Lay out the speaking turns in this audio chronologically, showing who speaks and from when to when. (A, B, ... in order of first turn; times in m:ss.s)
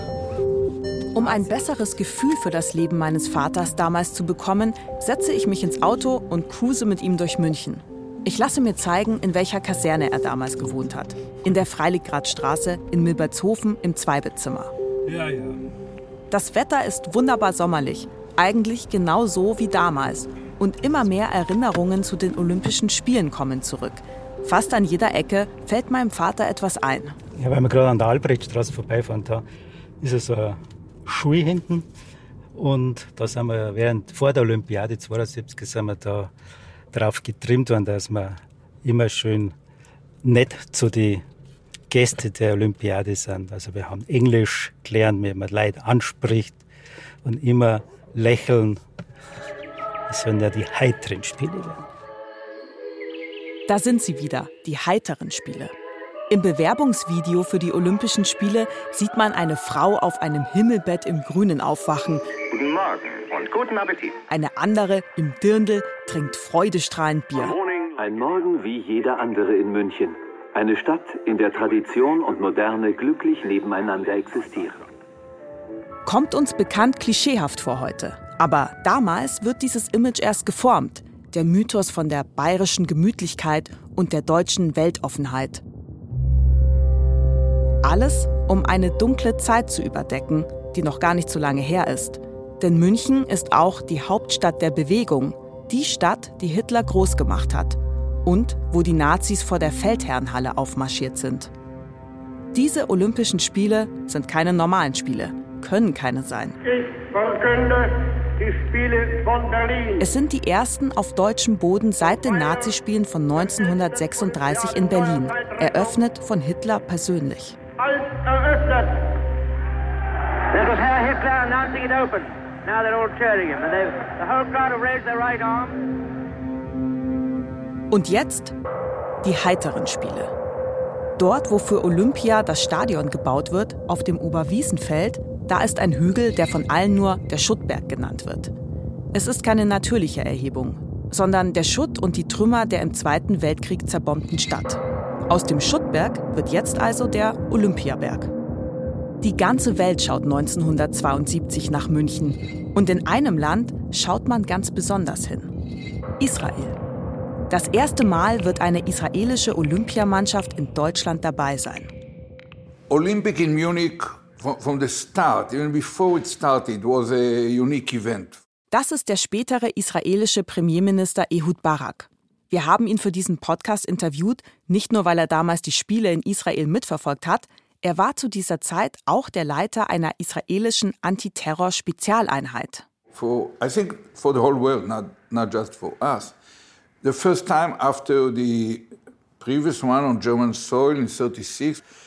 0:01.1-0:14.7 A
0:15.1-0:15.6 B
0:16.3-0:27.2 A
0:27.4-0:29.4 B
0:30.0-0:31.9 B
0:32.6-0:36.3 B
0:36.9-0:39.6 B
0:40.2-0:41.2 B
0:41.9-0:46.6 B
0:47.2-0:48.8 B
0:50.1-0:51.9 B
0:53.7-0:55.7 A
0:56.3-1:02.3 A
1:02.5-1:04.2 C
1:04.3-1:07.6 A
1:07.4-1:08.0 C
1:08.0-1:14.9 D
1:16.0-1:25.6 A
1:27.8-1:41.5 A
1:42.5-1:46.6 A
1:50.0-1:57.6 A
2:07.9-2:08.6 A
2:09.2-2:10.3 A
2:11.2-2:18.5 A
2:19.1-2:28.3 A
2:29.2-2:35.5 A
2:36.2-2:36.8 A
2:37.5-2:41.9 A
2:42.9-2:48.4 E
2:48.7-3:02.9 A
3:03.1-3:06.4 E
3:07.0-3:11.8 E